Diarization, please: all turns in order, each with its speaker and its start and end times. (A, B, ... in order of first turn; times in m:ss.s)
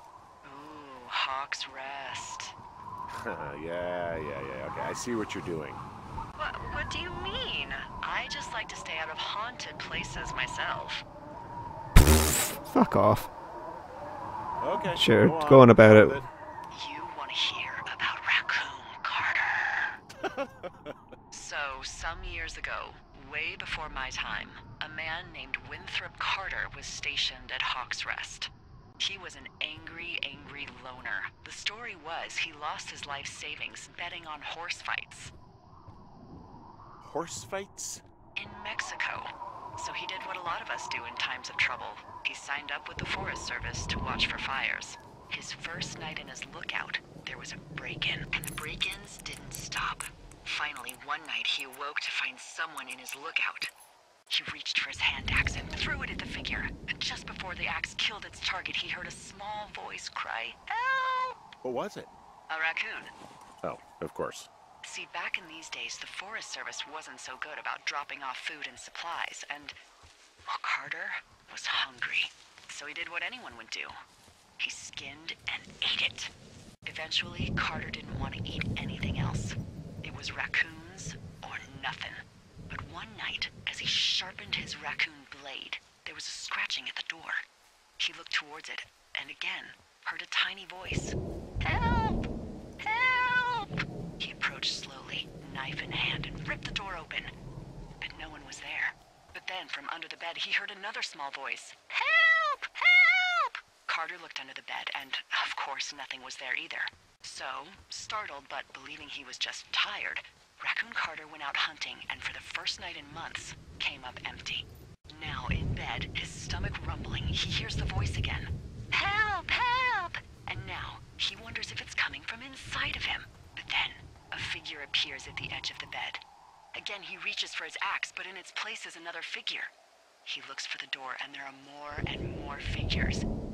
0:00.4-0:02.6 A
0:03.1-0:05.8 B
0:06.4-0:11.0 A
0:12.0-0:13.3 C
0:14.6-0:16.3 B
0:15.0-0:16.2 C
0:16.7-0:19.9 A
0:21.3-0:35.3 A
0:37.0-0:38.0 B
0:38.4-0:53.7 A
0:54.3-1:01.4 A
1:01.6-1:02.1 B
1:02.5-1:03.1 A
1:03.6-1:04.5 B
1:04.8-1:09.8 A
1:10.5-1:13.9 A
1:14.6-1:16.3 A
1:16.8-1:27.4 A
1:28.0-1:32.2 A
1:32.8-1:37.3 A
1:38.0-2:06.2 A
2:06.8-2:09.7 A
2:10.2-2:13.3 A